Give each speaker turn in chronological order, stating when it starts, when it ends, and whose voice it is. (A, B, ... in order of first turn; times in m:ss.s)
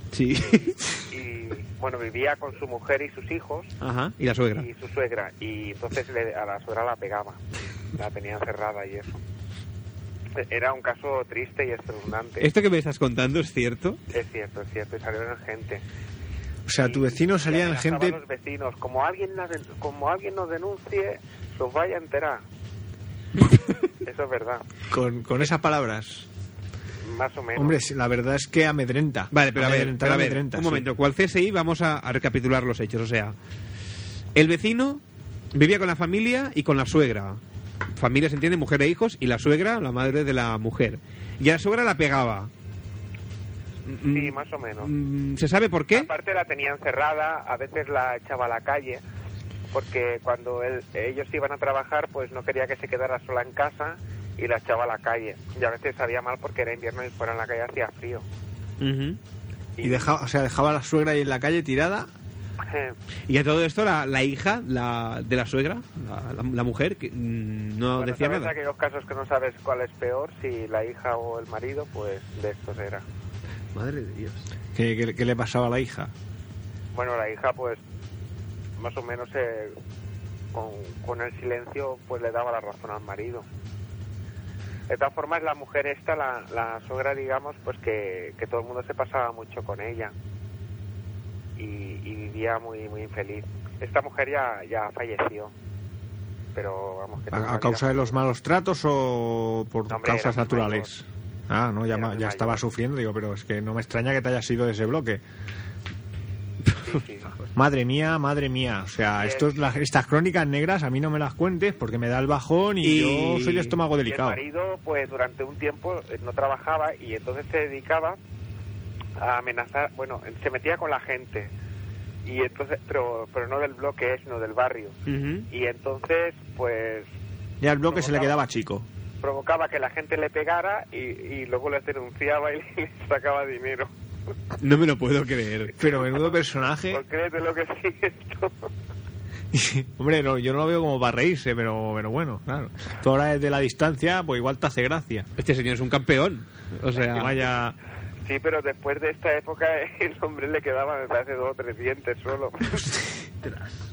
0:00.1-0:00.8 A
0:00.4-0:03.7 B
0:03.8-0:04.6 A
0:04.5-0:07.4 B
0:07.9-0:09.2 B
0:10.4-0:12.5 B
0:12.4-0:14.0 A
0:14.1-0:15.8 B
0:16.6-0:18.2 C
0:16.8-0:22.4 B
0:24.0-0:24.6 B
0:24.9-0:26.3 C
0:27.1-0:27.8 B
0:27.6-0:30.8 C
0:29.3-0:33.4 A
0:34.3-0:35.0 A
0:35.5-0:37.4 A
0:38.0-0:42.5 A
0:43.9-0:46.1 A
0:44.0-0:44.9 B
0:45.9-0:49.0 B
0:49.7-0:58.2 B
0:58.8-0:59.2 A
0:59.8-1:00.1 B
0:59.8-1:02.1 C
1:02.6-1:02.9 B
1:03.3-1:08.5 A
1:08.0-1:13.0 B
1:13.7-1:14.4 A
1:14.7-1:16.1 C
1:16.9-1:17.8 B
1:18.8-1:19.7 B
1:20.5-1:23.4 B
1:24.9-1:30.1 B
1:31.6-1:35.5 B
1:36.5-1:38.1 B
1:37.3-1:45.2 C
1:39.9-1:40.9 B
1:41.9-1:42.6 B
1:46.8-1:47.3 B
1:47.5-1:54.4 C
1:49.2-1:49.5 B
1:52.8-1:53.8 A
1:54.0-1:58.2 B
1:59.2-2:01.5 B
2:02.2-2:05.0 B
2:05.1-2:05.5 A
2:05.5-2:07.1 B
2:07.6-2:08.8 C
2:07.9-2:08.4 B
2:09.2-2:13.9 B
2:14.6-2:15.7 A
2:15.8-2:17.0 C
2:16.9-2:18.7 B
2:19.5-2:25.3 C
2:25.4-2:27.3 A
2:27.1-2:27.7 C
2:28.2-2:32.9 B